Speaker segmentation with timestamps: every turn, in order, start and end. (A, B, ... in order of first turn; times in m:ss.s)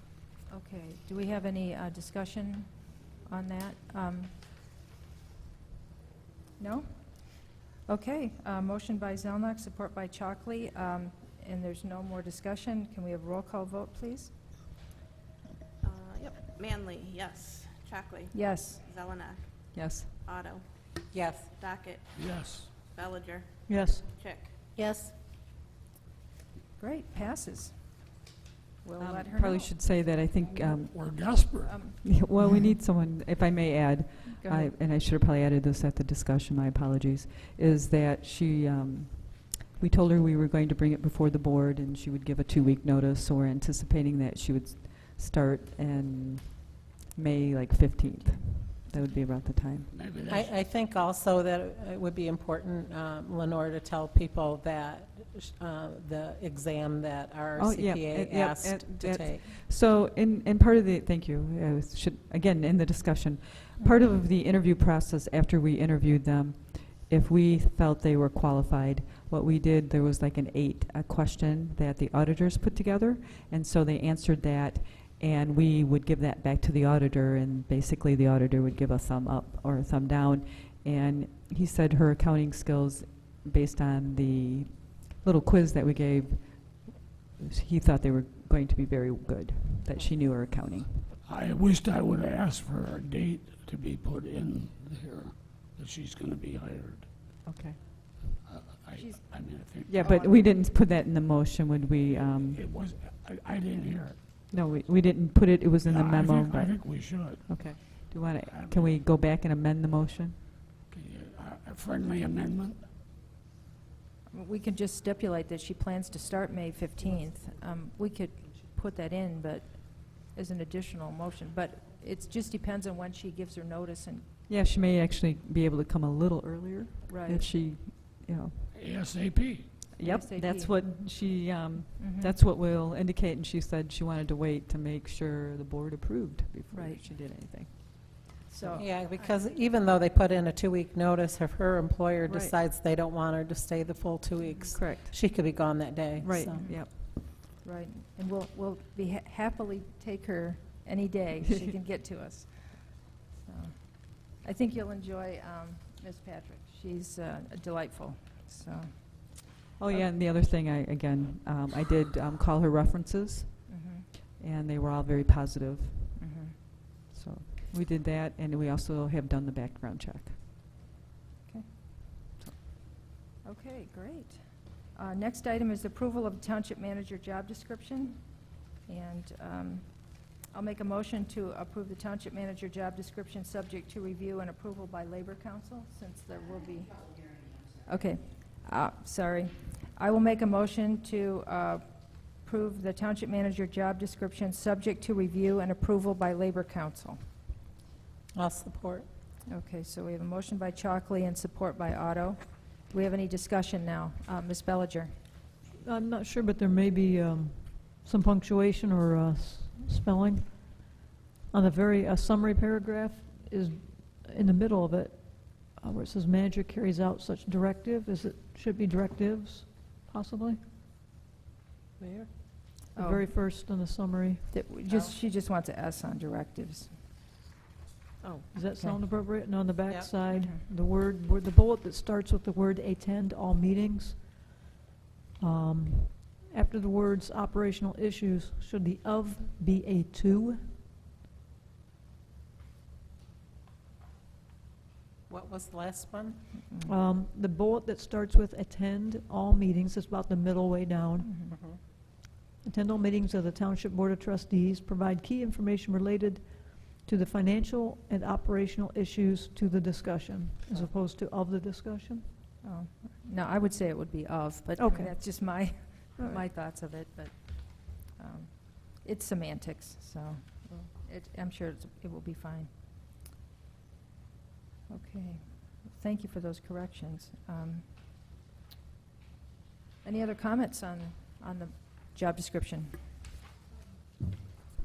0:00.5-0:04.3 A
0:06.6-0:14.3 A
0:15.8-0:20.6 B
0:18.3-0:18.8 A
0:19.7-0:20.1 C
0:21.1-0:21.5 D
0:21.5-0:22.1 B
0:22.1-0:22.7 E
0:22.7-0:23.5 B
0:23.7-0:24.0 F
0:24.1-0:24.5 B
0:24.8-0:25.1 D
0:26.8-0:28.1 A
0:28.8-0:29.7 A
0:29.0-0:31.0 C
0:30.5-0:31.9 E
0:31.6-0:32.0 A
0:32.0-0:49.9 C
0:34.3-0:34.7 A
0:49.9-0:50.5 E
0:50.3-0:59.5 D
0:57.6-1:31.1 C
1:31.2-1:37.1 E
1:37.4-1:37.8 C
1:38.4-1:40.1 E
1:39.0-1:39.2 A
1:39.9-1:42.6 C
1:40.0-1:40.5 A
1:42.4-1:44.4 E
1:44.5-1:50.4 C
1:45.8-1:49.0 E
1:50.9-1:52.8 E
1:54.3-2:04.3 A
2:04.5-2:08.7 C
2:07.1-2:07.5 A
2:08.7-2:09.7 E
2:10.0-2:18.0 C
2:10.0-2:10.8 A
2:12.0-2:12.3 A
2:16.7-2:17.0 A
2:18.5-2:19.3 A
2:18.7-2:26.7 D
2:22.2-2:22.5 C
2:24.4-2:24.8 A
2:24.7-2:25.5 C
2:26.2-2:27.0 C
2:26.5-2:40.0 A
2:39.8-2:43.8 C
2:43.7-2:44.0 A
2:44.4-2:50.4 C
2:46.2-2:46.5 A
2:53.4-3:17.2 A
3:18.3-3:19.1 D
3:19.5-3:25.1 A
3:25.8-3:40.6 F
3:42.0-3:42.3 D
3:43.0-3:43.3 A
3:43.0-3:44.4 F
3:44.5-3:46.9 A
3:48.5-3:54.3 F
3:50.3-3:50.6 A
3:55.4-4:00.6 F
4:05.3-4:06.4 D
4:06.8-4:11.3 F
4:11.2-4:11.5 A
4:11.5-4:11.8 D
4:12.6-4:22.2 F
4:22.6-4:32.7 A
4:24.8-4:25.6 F
4:26.2-4:26.4 F
4:34.9-4:37.9 A
4:40.0-4:43.1 A